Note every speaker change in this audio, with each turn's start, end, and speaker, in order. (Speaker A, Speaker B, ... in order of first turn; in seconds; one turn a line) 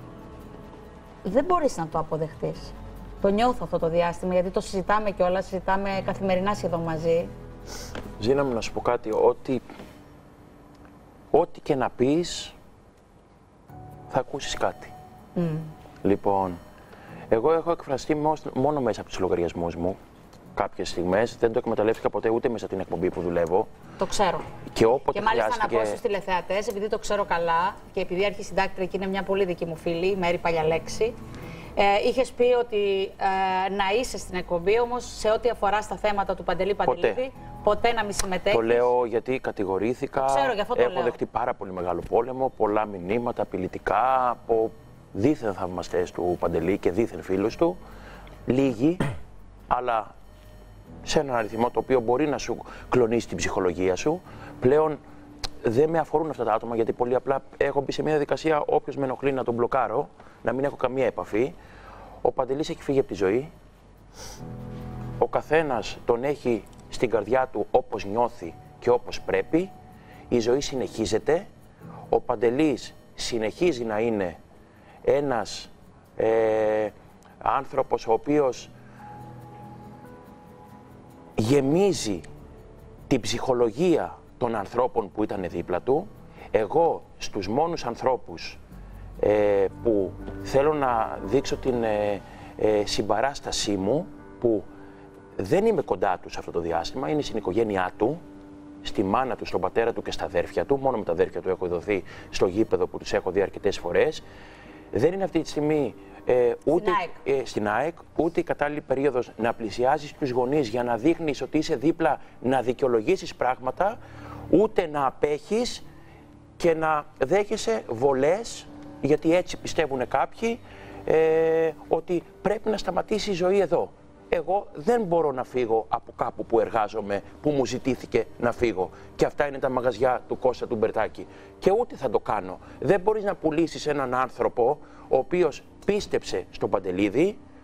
Speaker A: 1.2-7.3
Speaker B: 8.2-9.7
Speaker B: 11.3-12.6
Speaker B: 14.1-14.9
Speaker A: 15.4-15.7
Speaker B: 16.0-16.6
Speaker B: 17.3-20.0
Speaker B: 20.6-23.7
Speaker A: 24.0-24.5
Speaker B: 24.7-26.0
Speaker A: 25.1-31.2
Speaker A: 31.8-38.9
Speaker B: 36.9-37.2
Speaker B: 38.5-47.8
Speaker A: 40.2-41.2
Speaker B: 48.5-49.0
Speaker B: 49.7-50.1
Speaker B: 51.0-55.0
Speaker B: 55.6-61.5
Speaker B: 62.2-63.5
Speaker B: 65.2-69.7
Speaker B: 70.3-71.5
Speaker B: 72.1-74.4
Speaker B: 75.0-78.7
Speaker B: 81.4-82.3
Speaker B: 83.1-88.6
Speaker B: 89.2-94.7
Speaker B: 95.4-98.2
Speaker B: 98.8-104.2
Speaker B: 104.9-114.0
Speaker A: 106.7-107.2
Speaker B: 114.5-115.8
Speaker B: 116.6-137.4